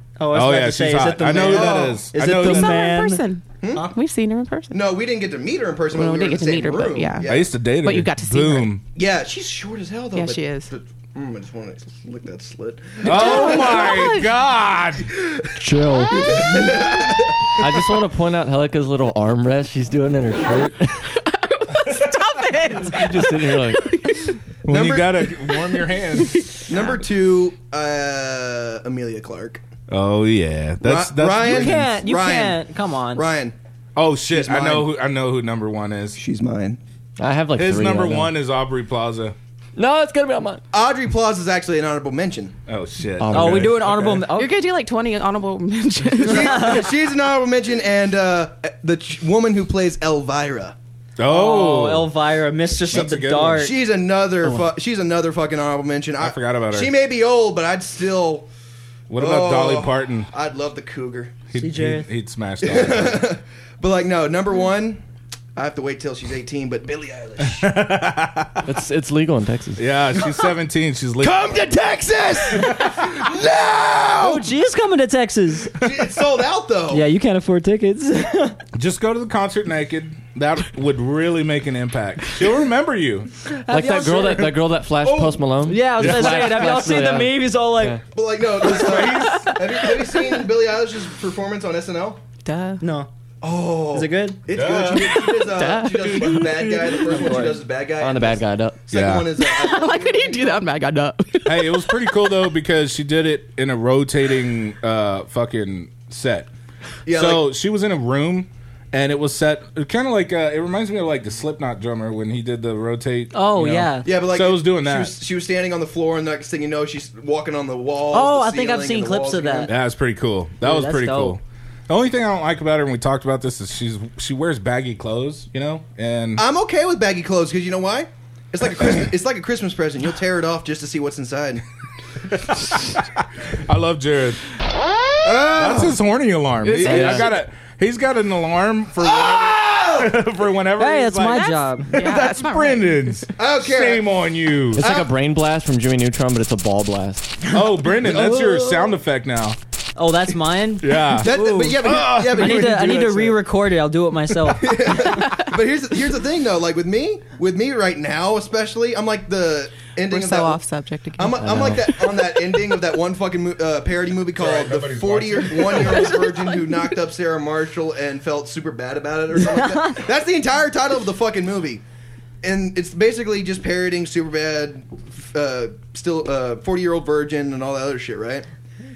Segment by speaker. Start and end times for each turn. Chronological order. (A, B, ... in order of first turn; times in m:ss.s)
0:00.2-0:03.2 A
0:00.3-0:02.9 B
0:01.2-0:02.1 C
0:02.3-0:04.8 D
0:03.6-0:03.9 C
0:04.7-0:07.5 C
0:05.9-0:08.7 D
0:07.2-0:08.8 B
0:08.9-0:14.1 C
0:10.1-0:10.7 D
0:13.0-0:15.1 B
0:13.0-0:14.3 D
0:15.1-0:15.5 C
0:15.6-0:16.5 E
0:16.1-0:16.7 D
0:16.1-0:17.8 C
0:17.6-0:21.1 E
0:21.2-0:24.4 D
0:22.8-0:24.0 E
0:24.6-0:26.5 B
0:24.7-0:25.4 C
0:25.7-0:26.7 D
0:26.6-0:29.6 C
0:29.9-0:31.8 B
0:30.8-0:33.5 C
0:31.4-0:33.3 A
0:34.0-0:36.2 B
0:34.3-0:34.9 C
0:36.1-0:36.8 C
0:37.2-0:38.3 E
0:37.6-0:39.3 B
0:39.8-0:40.6 E
0:40.7-0:42.5 C
0:42.7-0:44.2 B
0:43.2-0:43.8 E
0:43.3-0:44.6 A
0:44.3-0:46.9 D
0:46.2-0:46.9 A
0:46.2-0:50.8 C
0:51.2-0:52.1 B
0:51.2-0:53.8 A
0:52.8-0:53.7 B
0:53.5-0:58.5 C
0:56.2-0:56.9 B
0:59.1-1:00.3 B
0:59.2-1:01.4 C
1:01.5-1:03.3 B
1:01.5-1:02.1 A
1:02.6-1:05.0 C
1:05.5-1:07.7 C
1:07.4-1:08.6 B
1:08.6-1:09.8 E
1:09.8-1:11.6 B
1:11.2-1:14.5 C
1:12.6-1:13.0 B
1:14.2-1:15.7 A
1:15.8-1:17.1 C
1:16.9-1:18.6 A
1:18.7-1:23.4 B
1:23.5-1:24.5 A
1:23.7-1:28.0 E
1:25.0-1:25.4 C
1:25.6-1:28.0 A
1:26.0-1:26.7 B
1:28.1-1:32.2 C
1:28.6-1:29.6 B
1:29.4-1:30.0 D
1:32.4-1:32.8 D
1:32.8-1:33.1 A
1:33.4-1:40.5 C
1:33.9-1:34.4 A
1:34.5-1:35.4 B
1:35.2-1:37.0 D
1:37.0-1:37.6 A
1:38.0-1:38.8 E
1:38.9-1:39.3 B
1:39.4-1:42.1 D
1:41.4-1:46.5 B
1:47.0-1:47.5 C
1:47.1-1:55.1 B
1:53.3-1:54.1 A
1:54.0-1:59.7 C
1:58.1-1:59.7 A
1:59.7-2:06.4 B
2:00.6-2:01.4 A
2:06.4-2:11.6 C
2:12.3-2:14.4 B
2:15.2-2:16.0 C
2:15.4-2:24.8 B
2:16.7-2:17.2 D
2:16.7-2:17.3 E
2:19.0-2:20.2 C
2:20.8-2:22.2 A
2:21.5-2:23.3 D
2:23.4-2:24.1 C
2:24.7-2:27.4 E
2:24.8-2:25.1 C
2:27.5-2:29.6 B
2:28.0-2:28.8 A
2:28.0-2:28.8 C
2:30.0-2:35.0 A
2:30.8-2:33.2 B
2:31.0-2:33.4 C
2:34.5-2:40.6 C
2:40.1-2:41.8 D
2:41.2-2:51.8 C
2:41.4-2:41.9 E
2:44.4-2:46.2 B
2:49.5-2:50.0 A
2:52.4-2:58.4 C